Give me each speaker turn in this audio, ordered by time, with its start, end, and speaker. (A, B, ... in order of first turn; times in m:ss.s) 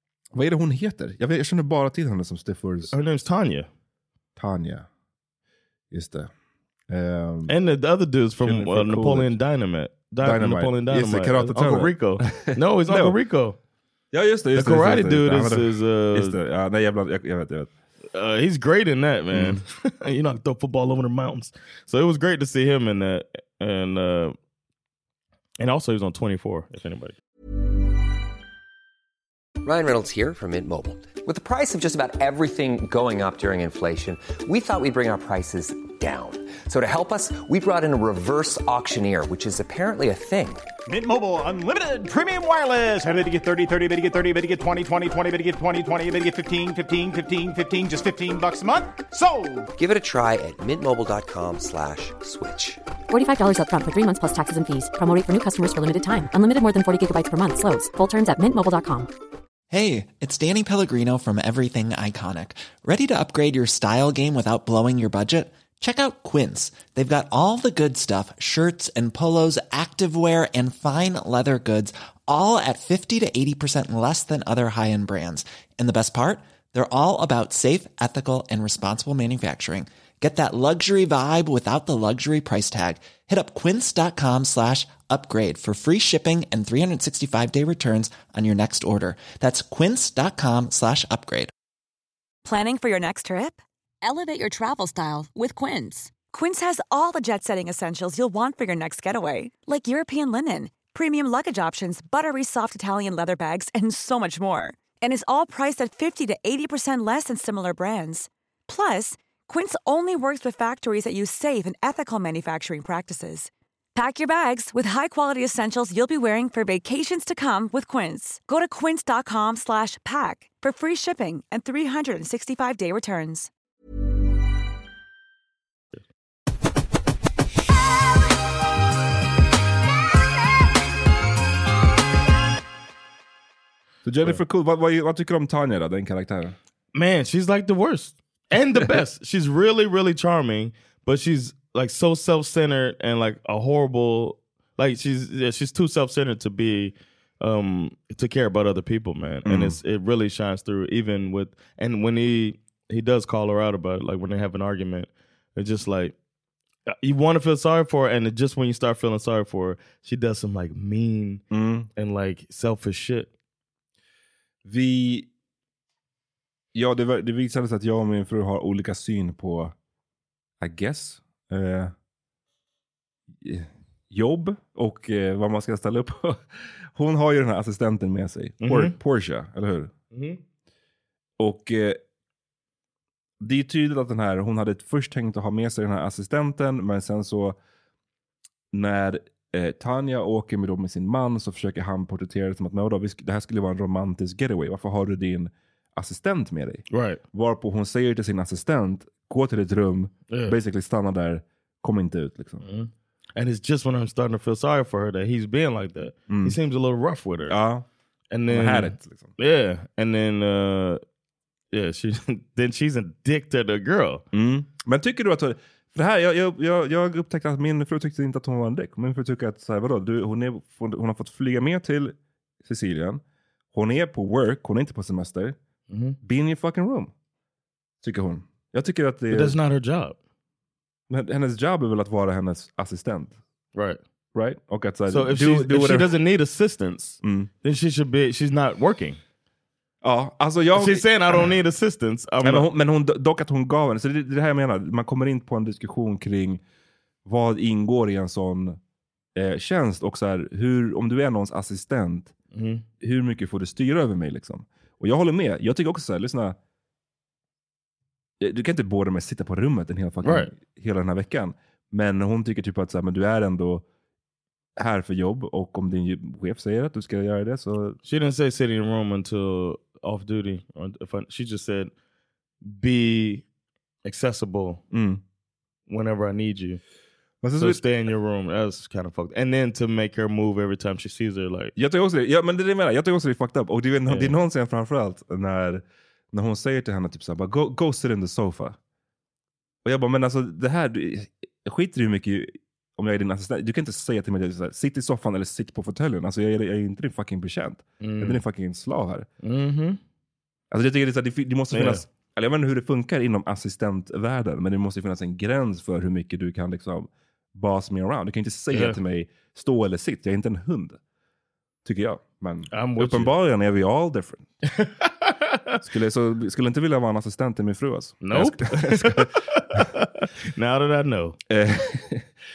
0:00.3-0:02.9 A
0:02.9-0:03.7 B
0:04.4-0:04.8 A
0:05.9-0:06.3 A
0:06.9-0:07.5 A
0:07.5-0:13.6 B
0:08.4-0:09.3 A
0:10.2-0:13.2 A
0:14.1-0:17.7 A
0:14.5-0:16.4 B
0:18.1-0:24.3 B
0:19.3-0:19.6 A
0:25.6-0:27.2 B
0:29.6-0:40.7 C
0:40.9-0:49.7 D
0:49.7-0:52.8 C
0:53.1-0:59.1 E
0:59.7-1:31.5 F
1:32.4-2:03.5 G
2:14.0-2:16.6 A
2:16.9-2:36.1 B
2:29.4-2:29.8 A
2:36.9-2:41.4 B
2:41.5-2:41.9 A
2:42.0-2:43.3 B
2:44.6-2:45.3 A
2:46.7-2:49.7 A
2:50.6-2:51.9 A
2:53.4-2:56.4 A
2:56.9-2:59.9 A
2:58.6-2:58.9 B
3:00.1-3:00.4 B
3:01.4-3:02.0 A
3:03.4-3:07.6 A
3:08.7-3:22.6 A
3:16.9-3:17.2 B
3:20.3-3:20.6 B
3:22.6-3:27.5 B
3:26.3-3:26.6 A
3:27.5-3:27.8 A
3:28.3-3:31.0 B
3:28.5-3:29.3 A
3:31.7-3:34.2 B
3:34.3-3:43.2 A
3:43.7-3:45.6 A
3:45.9-3:46.2 B
3:46.2-3:47.1 A
3:48.0-3:49.6 A
3:49.3-3:50.2 B
3:51.1-3:53.4 A
3:54.3-3:56.1 A
3:55.1-3:59.2 B
3:57.2-3:57.5 A
4:00.0-4:01.5 A
4:00.7-4:02.7 B
4:02.4-4:06.6 A
4:07.2-4:08.8 A
4:09.4-4:12.3 A
4:12.5-4:12.8 B
4:13.0-4:16.6 A
4:18.4-4:23.8 A
4:20.2-4:20.5 B
4:24.8-4:28.0 A
4:28.0-4:31.9 B
4:32.6-4:33.4 B
4:34.0-4:34.8 B
4:34.9-4:35.2 A
4:35.9-4:36.8 B
4:37.4-4:37.8 A
4:37.6-4:41.7 B
4:41.8-4:48.8 A
4:44.1-4:44.3 B
4:49.8-4:59.3 A
4:58.0-4:58.4 B
4:59.4-5:00.0 B
5:00.7-5:11.0 A
5:01.7-5:02.0 B
5:08.7-5:09.0 B
5:11.8-5:14.5 A
5:12.7-5:13.3 B
5:14.7-5:15.8 B
5:15.8-5:19.9 A
5:18.2-5:21.4 B
5:21.5-5:22.3 A